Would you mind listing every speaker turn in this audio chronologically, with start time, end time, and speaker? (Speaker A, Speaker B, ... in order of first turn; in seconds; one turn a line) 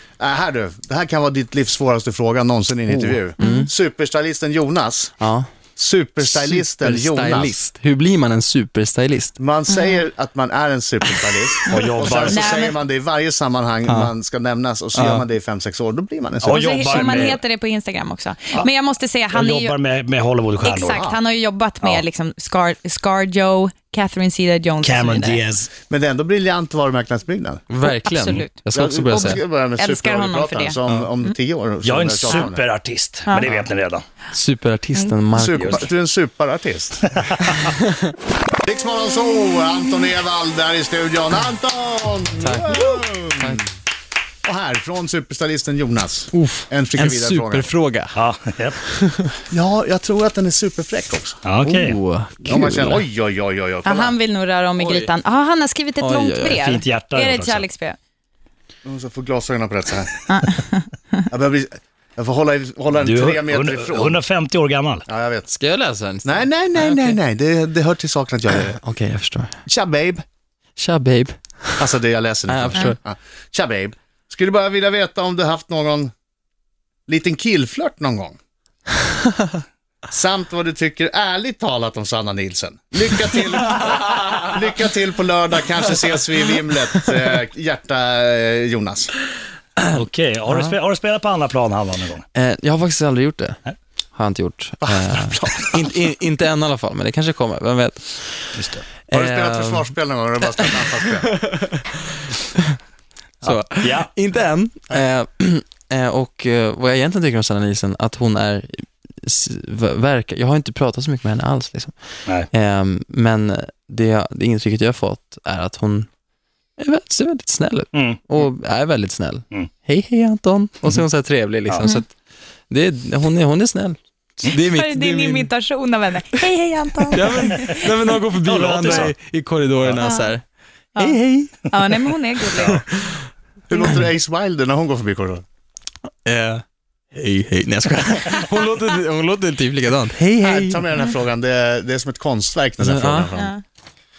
Speaker A: 0.2-5.1
Speaker B: 2.9-3.7
Speaker C: 3.4-3.6
Speaker B: 5.2-5.5
Speaker A: 5.8-7.6
Speaker B: 6.2-9.3
Speaker A: 9.4-17.4
Speaker C: 9.7-10.0
Speaker D: 11.7-12.5
Speaker C: 12.3-12.8
Speaker B: 13.9-14.1
Speaker B: 14.9-15.2
Speaker D: 16.4-17.4
Speaker C: 16.5-19.8
Speaker D: 19.3-21.1
Speaker C: 20.6-25.4
Speaker A: 20.8-21.2
Speaker D: 24.8-25.7
Speaker A: 25.9-27.6
Speaker B: 27.7-29.4
Speaker C: 27.9-28.5
Speaker A: 28.7-32.6
Speaker C: 29.8-30.8
Speaker D: 31.8-34.0
Speaker B: 34.3-35.9
Speaker A: 35.3-37.2
Speaker D: 35.6-35.8
Speaker A: 38.6-43.6
Speaker B: 42.4-43.7
Speaker A: 44.5-47.7
Speaker B: 46.3-48.2
Speaker D: 48.1-48.8
Speaker B: 48.8-49.3
Speaker A: 49.5-51.4
Speaker D: 51.4-52.0
Speaker B: 51.6-53.0
Speaker A: 52.5-54.2
Speaker C: 53.9-58.0
Speaker B: 54.8-55.1
Speaker B: 56.0-56.7
Speaker D: 56.6-57.7
Speaker A: 58.9-60.2
Speaker C: 60.3-60.9
Speaker A: 61.3-64.2
Speaker D: 63.0-65.0
Speaker A: 65.1-65.5
Speaker B: 65.5-67.2
Speaker A: 66.2-68.8
Speaker B: 68.7-69.6
Speaker A: 69.7-70.2
Speaker B: 70.8-71.9
Speaker A: 71.8-76.1
Speaker B: 72.5-73.0
Speaker A: 77.1-78.4
Speaker A: 80.1-89.1
Speaker B: 89.8-90.8
Speaker D: 89.9-92.2
Speaker B: 92.3-93.6
Speaker B: 94.2-98.5
Speaker A: 94.8-95.9
Speaker D: 98.5-98.8
Speaker B: 99.1-99.9
Speaker A: 99.1-101.3
Speaker B: 100.6-102.8
Speaker D: 103.4-104.1
Speaker B: 103.4-111.9
Speaker B: 112.5-116.1
Speaker B: 116.8-122.1
Speaker D: 117.9-118.2
Speaker B: 122.7-125.5
Speaker C: 124.7-127.9
Speaker B: 127.1-130.4
Speaker D: 128.4-129.1
Speaker B: 131.0-131.7
Speaker C: 131.0-132.8
Speaker D: 132.6-132.8
Speaker B: 132.6-133.3
Speaker A: 133.7-135.4
Speaker B: 136.3-140.9
Speaker A: 140.4-143.6
Speaker B: 142.8-143.3
Speaker C: 143.4-143.6